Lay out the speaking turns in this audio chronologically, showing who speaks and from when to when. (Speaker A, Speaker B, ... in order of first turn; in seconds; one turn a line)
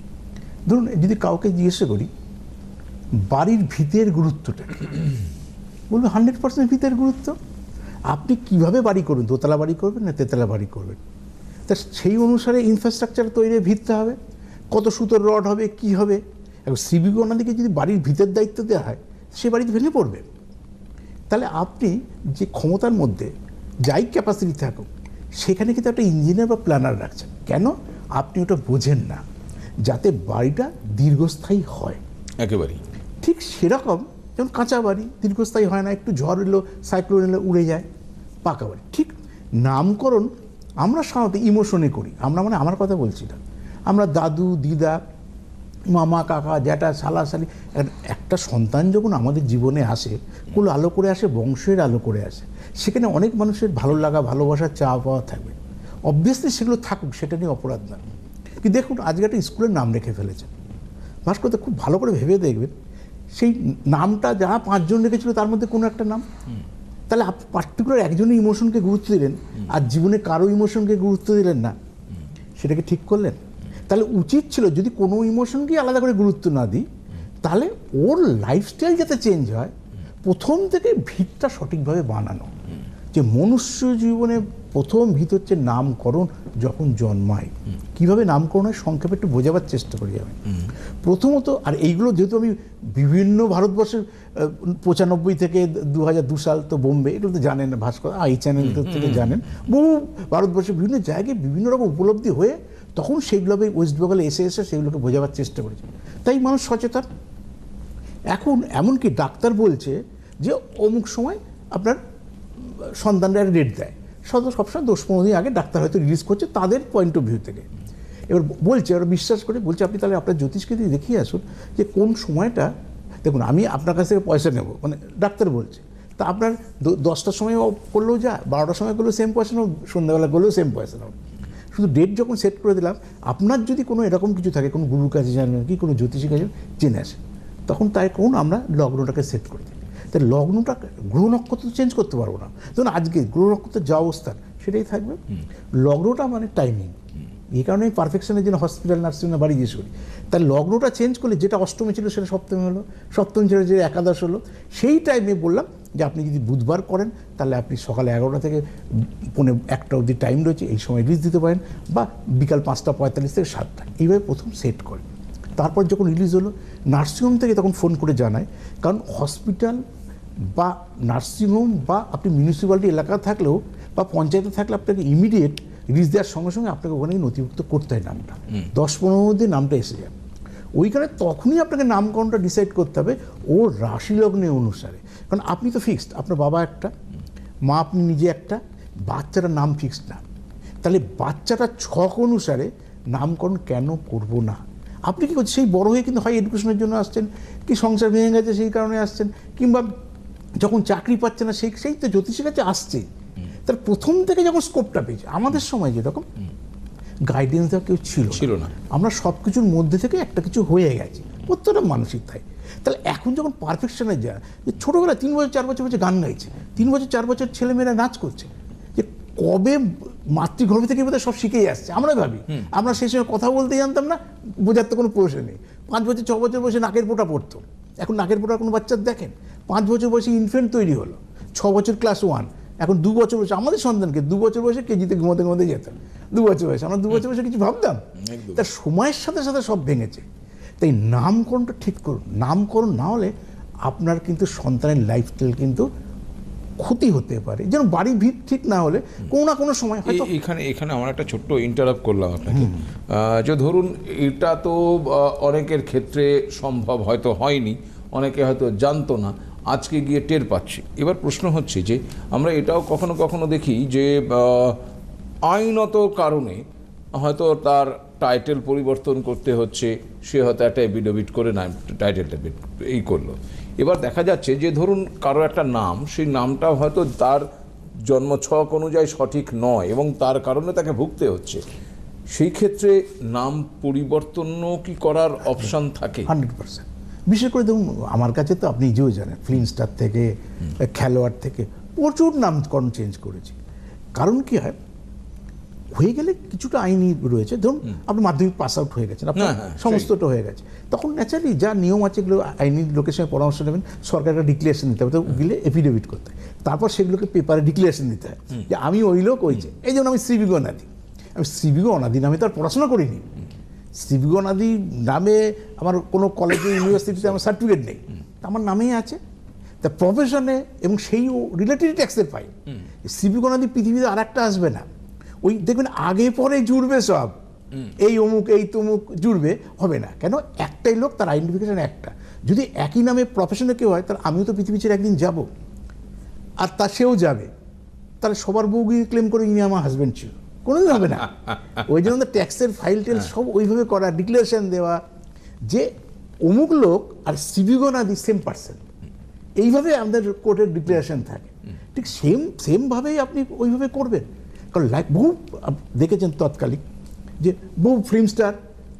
Speaker A: 0.7-2.1
Speaker A: 3.3-4.9
Speaker A: 5.9-7.4
Speaker A: 8.1-11.0
Speaker A: 11.7-14.2
Speaker A: 14.7-20.2
Speaker A: 21.3-23.3
Speaker A: 23.9-24.9
Speaker A: 25.4-29.2
Speaker A: 29.8-32.0
Speaker B: 32.4-32.8
Speaker A: 33.2-37.9
Speaker A: 38.4-40.3
Speaker A: 40.8-45.0
Speaker A: 45.9-55.6
Speaker A: 56.1-58.0
Speaker A: 58.6-60.5
Speaker A: 61.2-62.7
Speaker A: 63.4-66.2
Speaker A: 67.1-71.7
Speaker A: 72.6-76.8
Speaker A: 77.4-79.7
Speaker A: 80.2-82.5
Speaker A: 83.1-107.0
Speaker B: 98.7-99.4
Speaker A: 108.3-112.0
Speaker A: 113.0-117.7
Speaker A: 118.3-122.7
Speaker A: 123.2-131.2
Speaker A: 131.7-145.2
Speaker A: 145.8-147.0
Speaker A: 147.5-165.0
Speaker A: 165.6-169.8
Speaker A: 170.5-180.1
Speaker A: 180.8-186.9
Speaker A: 187.7-190.2
Speaker A: 190.8-199.9
Speaker A: 200.6-203.1
Speaker A: 203.6-206.2
Speaker A: 207.3-240.2
Speaker B: 208.3-208.7
Speaker B: 238.2-238.7
Speaker A: 240.8-243.3
Speaker A: 243.8-245.9
Speaker A: 246.8-250.3
Speaker B: 250.1-264.8
Speaker A: 252.5-252.8
Speaker B: 265.4-266.6
Speaker B: 267.1-277.4
Speaker B: 278.1-281.6
Speaker B: 282.3-286.3
Speaker A: 286.3-293.6
Speaker A: 294.1-294.8
Speaker A: 295.9-313.2
Speaker B: 299.4-300.1
Speaker A: 314.0-319.2
Speaker A: 319.8-324.9
Speaker A: 325.4-335.5
Speaker A: 336.6-337.5
Speaker A: 338.2-345.0
Speaker A: 346.4-348.8
Speaker A: 349.6-356.8
Speaker A: 357.4-358.6